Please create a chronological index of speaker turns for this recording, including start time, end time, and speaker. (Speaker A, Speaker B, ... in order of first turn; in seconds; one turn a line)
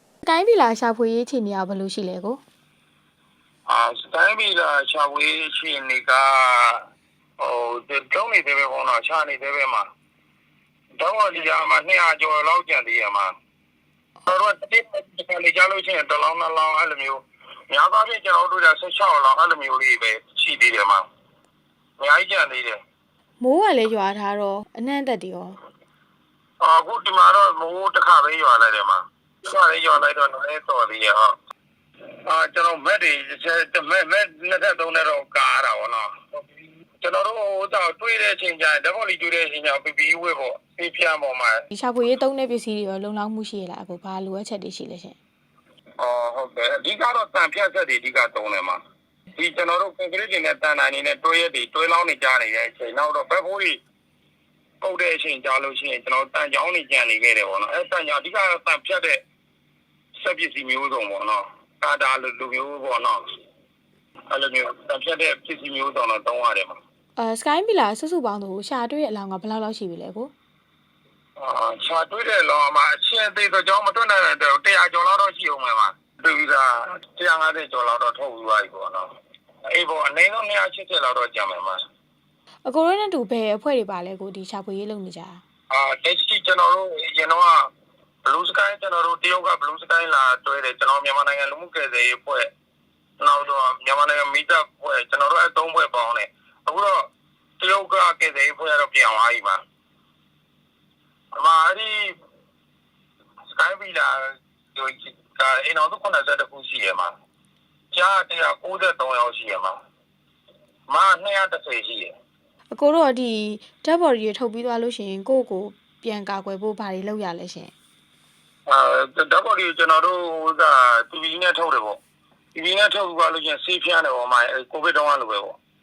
Speaker A: 0.3-2.4
Speaker B: 3.7-6.8
Speaker B: 7.4-9.8
Speaker B: 11.0-13.3
Speaker B: 14.3-21.0
Speaker B: 22.0-22.8
Speaker A: 23.4-25.6
Speaker B: 26.6-31.4
Speaker B: 32.3-36.2
Speaker B: 37.0-41.6
Speaker A: 41.7-45.2
Speaker B: 46.0-48.8
Speaker B: 49.4-53.8
Speaker B: 54.8-59.2
Speaker B: 60.2-63.2
Speaker B: 64.3-66.8
Speaker A: 67.2-70.3
Speaker B: 71.4-79.1
Speaker B: 79.7-81.8
Speaker A: 82.7-85.4
Speaker B: 85.7-87.7
Speaker B: 88.3-92.5
Speaker B: 93.2-97.0
Speaker B: 97.6-99.6
Speaker B: 101.4-102.2
Speaker B: 103.5-107.1
Speaker B: 107.9-109.8
Speaker B: 110.9-112.1
Speaker A: 112.7-117.7
Speaker B: 118.7-122.0
Speaker B: 122.5-125.6